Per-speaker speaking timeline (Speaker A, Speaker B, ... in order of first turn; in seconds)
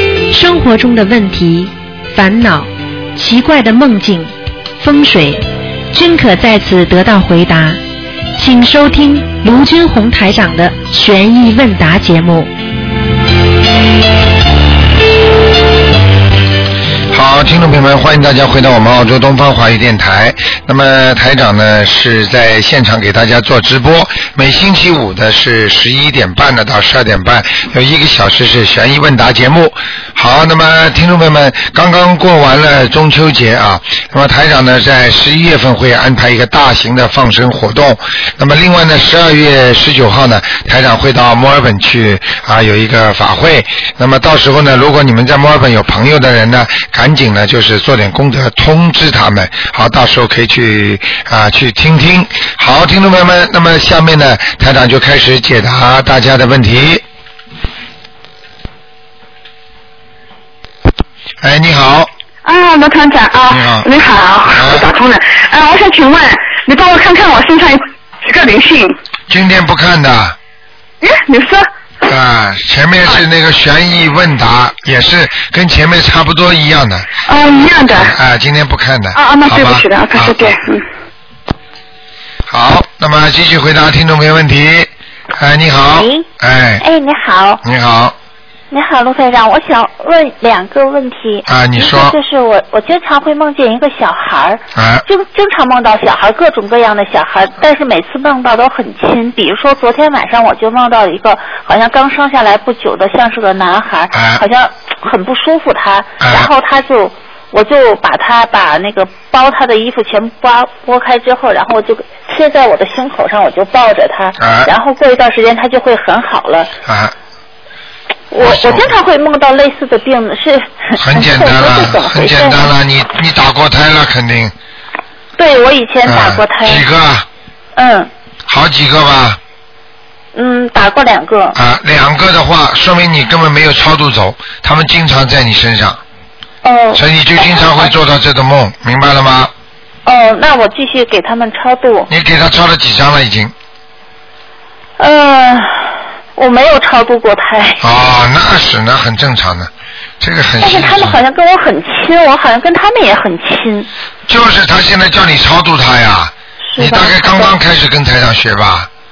Speaker A: 0.3-7.8, 8.4-12.5
Speaker B: 17.1-57.0, 61.4-62.1, 63.5-63.9, 64.5-64.9, 69.3-70.4, 72.1-77.1, 77.9-80.6, 82.5-86.8, 87.6-88.2, 91.5-92.2, 94.8-95.0, 104.1-104.4, 106.2-106.5, 114.4-114.7, 116.9-117.1, 118.4-119.0, 121.0-124.5, 126.1-127.3, 128.5-129.4, 131.6-136.0, 136.9-139.5, 142.1-143.5, 147.8-151.2, 154.3-158.9
Speaker C: 62.5-69.0, 71.0-71.7, 77.3-78.1, 79.1-80.8
Speaker D: 86.0-86.3, 86.8-87.6, 88.7-116.7, 118.3-122.7, 125.4-126.8, 127.8-128.1, 130.3-131.6, 136.6-137.9, 140.1-142.1, 145.0-147.8, 150.6-153.9, 156.7-157.6